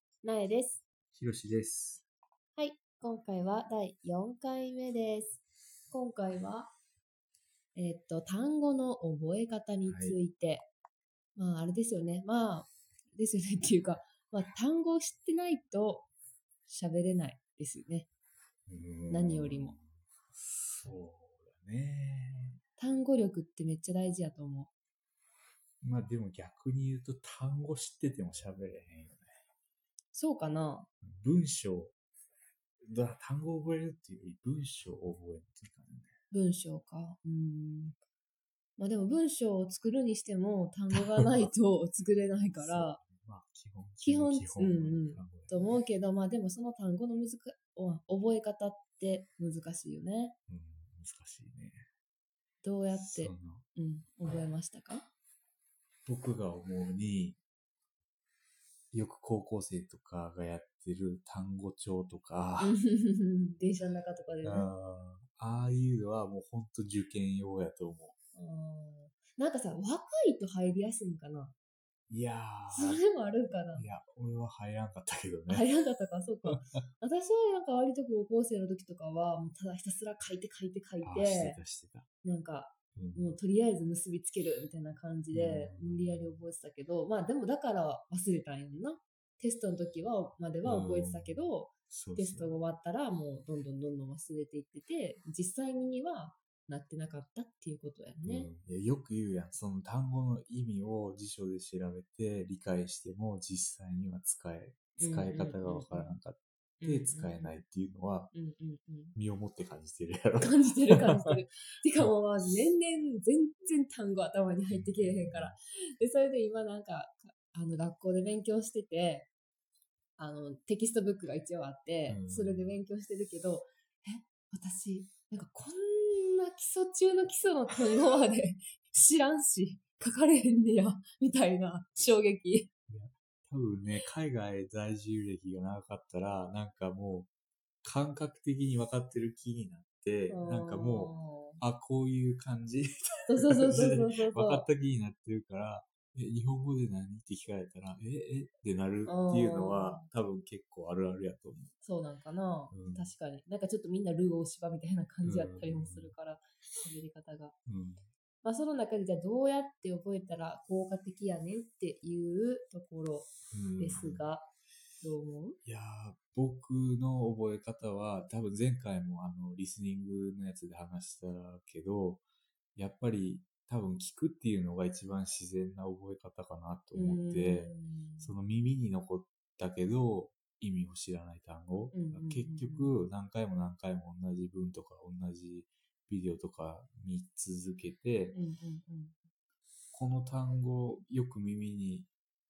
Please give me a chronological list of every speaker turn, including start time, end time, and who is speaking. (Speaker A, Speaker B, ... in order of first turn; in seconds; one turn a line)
Speaker A: 0.2-0.8
Speaker B: 1.1-2.0
Speaker A: 2.5-6.7
Speaker A: 7.7-10.7
Speaker B: 9.8-10.2
Speaker A: 11.3-16.1
Speaker A: 16.7-18.1
Speaker B: 18.7-22.6
Speaker A: 19.1-19.8
Speaker A: 22.8-24.7
Speaker B: 25.8-29.3
Speaker A: 30.1-30.9
Speaker B: 31.0-31.9
Speaker B: 32.9-36.1
Speaker A: 36.3-38.0
Speaker A: 38.8-43.0
Speaker B: 40.9-41.5
Speaker B: 42.5-45.7
Speaker A: 44.0-50.4
Speaker B: 50.5-51.8
Speaker A: 52.6-55.1
Speaker B: 52.9-53.6
Speaker B: 56.0-57.4
Speaker B: 58.9-62.8
Speaker A: 62.6-64.7
Speaker B: 64.4-68.1
Speaker A: 68.3-71.5
Speaker B: 72.1-73.0
Speaker A: 72.7-73.8
Speaker B: 73.7-75.7
Speaker A: 75.5-81.6
Speaker B: 81.0-82.1
Speaker A: 82.2-98.5
Speaker B: 83.0-83.4
Speaker B: 85.3-86.4
Speaker B: 90.6-92.5
Speaker B: 98.2-108.3
Speaker A: 105.0-106.2
Speaker A: 106.8-107.5
Speaker A: 108.3-109.1
Speaker B: 109.1-111.4
Speaker A: 110.4-119.3
Speaker B: 114.7-115.5
Speaker A: 120.2-132.7
Speaker B: 122.1-122.8
Speaker B: 132.9-137.3
Speaker B: 137.8-151.7
Speaker A: 140.3-141.6
Speaker A: 143.3-144.7
Speaker A: 149.0-150.0
Speaker A: 151.8-157.5
Speaker B: 152.7-153.1
Speaker B: 155.2-156.1
Speaker B: 157.7-158.1
Speaker A: 158.4-164.5
Speaker B: 163.5-164.2
Speaker A: 165.0-165.6
Speaker B: 165.6-172.2
Speaker B: 172.8-188.4
Speaker A: 176.9-178.3
Speaker A: 181.9-182.9
Speaker A: 188.3-189.2
Speaker B: 189.9-192.1